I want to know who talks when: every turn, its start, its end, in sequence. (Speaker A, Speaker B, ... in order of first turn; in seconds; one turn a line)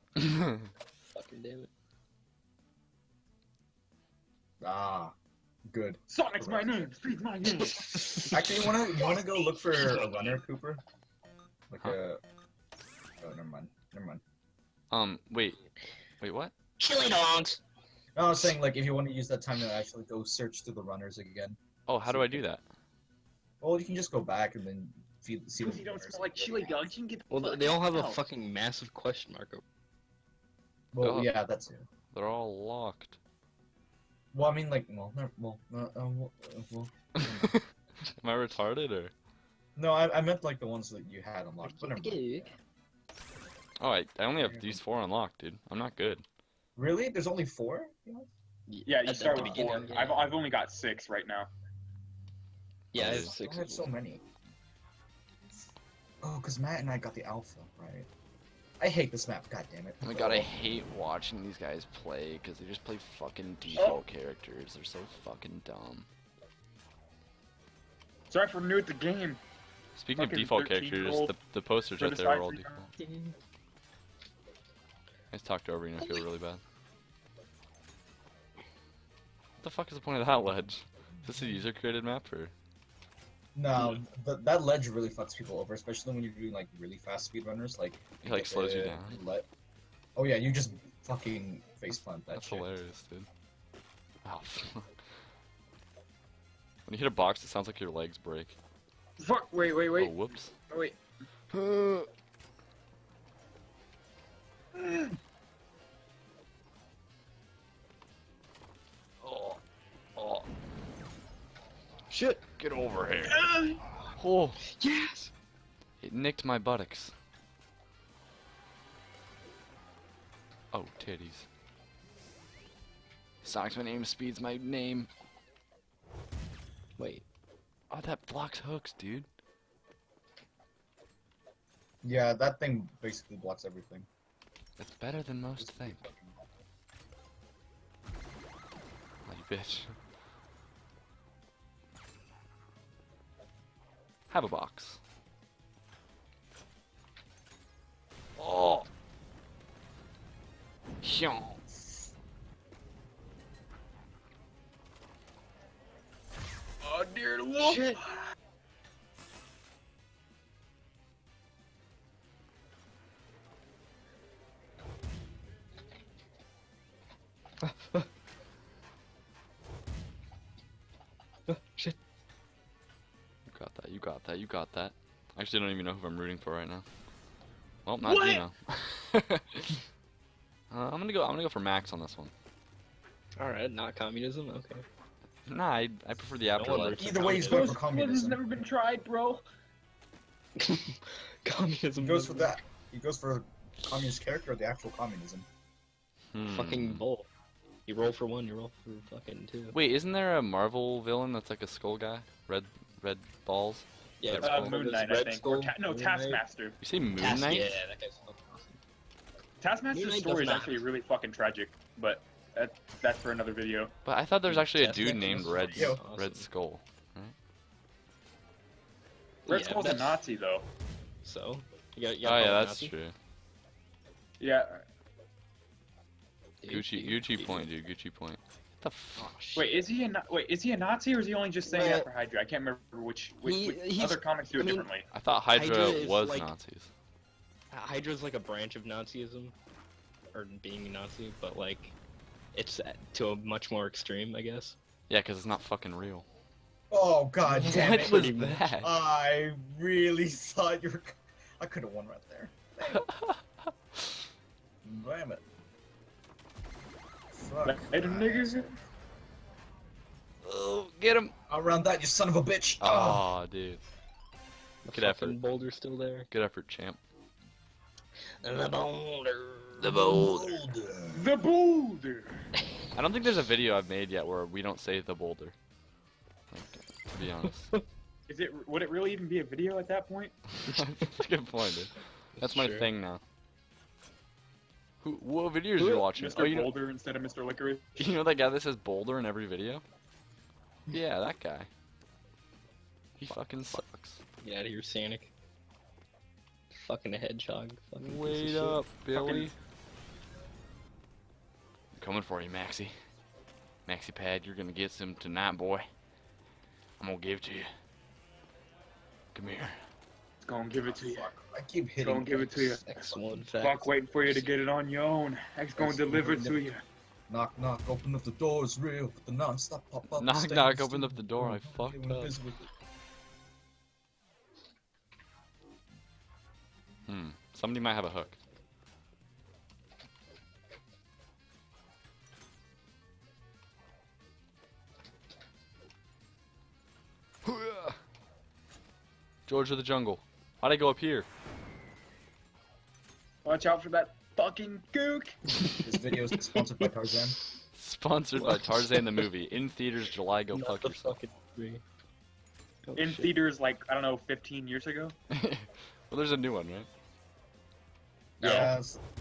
Speaker A: 0.2-0.6
Speaker B: 1.1-1.7
Speaker C: 4.6-5.2
Speaker C: 5.7-6.9
Speaker D: 6.1-8.4
Speaker B: 7.9-8.5
Speaker C: 8.3-10.8
Speaker C: 11.7-12.2
Speaker C: 13.2-14.2
Speaker A: 14.9-15.6
Speaker A: 16.2-16.5
Speaker B: 16.8-17.6
Speaker C: 18.2-22.5
Speaker A: 21.9-22.6
Speaker C: 23.6-26.9
Speaker D: 25.6-28.2
Speaker B: 27.3-29.6
Speaker C: 30.9-31.9
Speaker A: 31.0-31.3
Speaker A: 32.1-33.2
Speaker C: 34.3-37.6
Speaker A: 37.4-39.1
Speaker C: 39.8-42.5
Speaker B: 41.6-42.5
Speaker A: 43.8-46.2
Speaker C: 44.4-44.8
Speaker C: 46.8-48.3
Speaker B: 48.7-50.4
Speaker D: 48.9-51.5
Speaker C: 49.3-49.8
Speaker B: 52.9-53.9
Speaker A: 53.0-53.3
Speaker C: 53.0-54.2
Speaker C: 56.2-58.1
Speaker C: 58.8-60.5
Speaker A: 60.0-66.1
Speaker D: 63.8-64.0
Speaker D: 68.3-69.4
Speaker A: 70.0-72.9
Speaker D: 70.2-71.4
Speaker D: 72.0-72.8
Speaker B: 73.0-73.3
Speaker A: 75.3-76.6
Speaker A: 79.6-82.5
Speaker C: 83.5-89.5
Speaker A: 88.2-89.2
Speaker C: 90.2-92.7
Speaker A: 92.3-93.3
Speaker A: 94.2-95.0
Speaker A: 96.9-98.6
Speaker D: 99.2-100.2
Speaker A: 99.9-100.5
Speaker D: 100.7-101.0
Speaker A: 101.5-102.1
Speaker D: 104.8-105.2
Speaker A: 109.2-109.6
Speaker A: 110.2-110.5
Speaker B: 112.1-112.4
Speaker A: 112.6-113.5
Speaker D: 113.4-113.8
Speaker A: 114.2-114.6
Speaker B: 114.6-115.3
Speaker A: 116.0-117.1
Speaker A: 120.7-121.5
Speaker A: 123.4-125.1
Speaker B: 127.0-127.2
Speaker A: 127.9-129.3
Speaker C: 132.0-134.1
Speaker A: 134.8-136.0
Speaker C: 135.6-136.4
Speaker A: 139.2-140.0
Speaker A: 144.3-145.0
Speaker A: 148.4-148.9
Speaker A: 151.0-151.6
Speaker D: 156.8-158.2
Speaker B: 157.6-158.0
Speaker B: 167.6-168.1
Speaker B: 171.5-172.0
Speaker A: 173.5-176.9
Speaker A: 177.8-179.8
Speaker D: 178.0-178.4
Speaker A: 180.7-182.3
Speaker B: 183.4-184.8
Speaker A: 185.5-187.3
Speaker B: 186.5-187.8
Speaker C: 186.8-188.4
Speaker D: 187.3-189.4
Speaker B: 190.6-192.6
Speaker C: 192.0-195.5
Speaker A: 196.3-197.1
Speaker B: 196.4-197.3
Speaker B: 197.9-199.8
Speaker A: 199.7-204.8
Speaker B: 204.2-206.4
Speaker D: 204.4-206.8
Speaker A: 206.8-207.8
Speaker B: 207.2-208.8
Speaker D: 209.6-213.9
Speaker B: 209.9-210.8
Speaker A: 214.0-217.3
Speaker B: 214.5-216.5
Speaker C: 215.7-216.0
Speaker D: 219.5-220.7
Speaker B: 219.5-220.2
Speaker B: 221.2-222.9
Speaker A: 222.2-223.1
Speaker D: 224.4-224.8
Speaker B: 226.6-227.7
Speaker A: 226.7-229.3
Speaker B: 229.2-229.9
Speaker D: 229.5-235.1
Speaker B: 231.7-232.1
Speaker C: 231.8-232.0
Speaker B: 233.4-234.9
Speaker A: 235.1-236.9
Speaker B: 235.5-236.5
Speaker B: 237.7-239.5
Speaker B: 240.3-241.9
Speaker B: 242.5-244.8
Speaker A: 245.1-246.3
Speaker C: 246.9-253.1
Speaker A: 247.5-248.9
Speaker B: 247.6-248.3
Speaker A: 253.1-253.4
Speaker C: 254.8-255.4
Speaker C: 257.3-258.8
Speaker D: 257.6-258.7
Speaker A: 260.4-261.3
Speaker C: 261.5-263.2
Speaker A: 262.8-263.8
Speaker B: 264.9-266.3
Speaker A: 264.9-265.5
Speaker A: 266.3-267.0
Speaker B: 268.4-270.2
Speaker A: 269.8-270.6
Speaker C: 270.1-271.3
Speaker D: 271.1-272.4
Speaker A: 272.9-275.5
Speaker A: 276.5-277.8
Speaker D: 278.3-280.4
Speaker A: 280.6-283.2
Speaker B: 282.4-282.9
Speaker A: 285.0-286.7
Speaker D: 285.9-288.2
Speaker A: 288.0-289.9
Speaker A: 290.9-291.7
Speaker A: 293.2-294.2
Speaker B: 294.4-295.3
Speaker B: 296.7-298.8
Speaker A: 298.0-299.5
Speaker D: 299.1-299.5
Speaker A: 301.9-303.0
Speaker A: 303.9-305.9
Speaker A: 307.0-307.7
Speaker A: 309.3-309.8
Speaker D: 310.4-311.4
Speaker C: 310.9-313.5
Speaker D: 312.0-316.8
Speaker B: 312.7-314.5
Speaker C: 315.8-316.6
Speaker B: 316.1-316.5
Speaker C: 317.3-322.7
Speaker A: 320.1-322.4
Speaker A: 327.1-328.4
Speaker A: 337.4-338.0
Speaker A: 339.5-341.3
Speaker D: 343.4-345.4
Speaker C: 345.8-347.4
Speaker A: 347.7-351.2
Speaker B: 348.4-349.2
Speaker B: 350.5-351.8
Speaker B: 352.9-353.4
Speaker D: 352.9-355.1
Speaker A: 355.3-356.9
Speaker C: 358.4-359.0
Speaker D: 358.4-358.7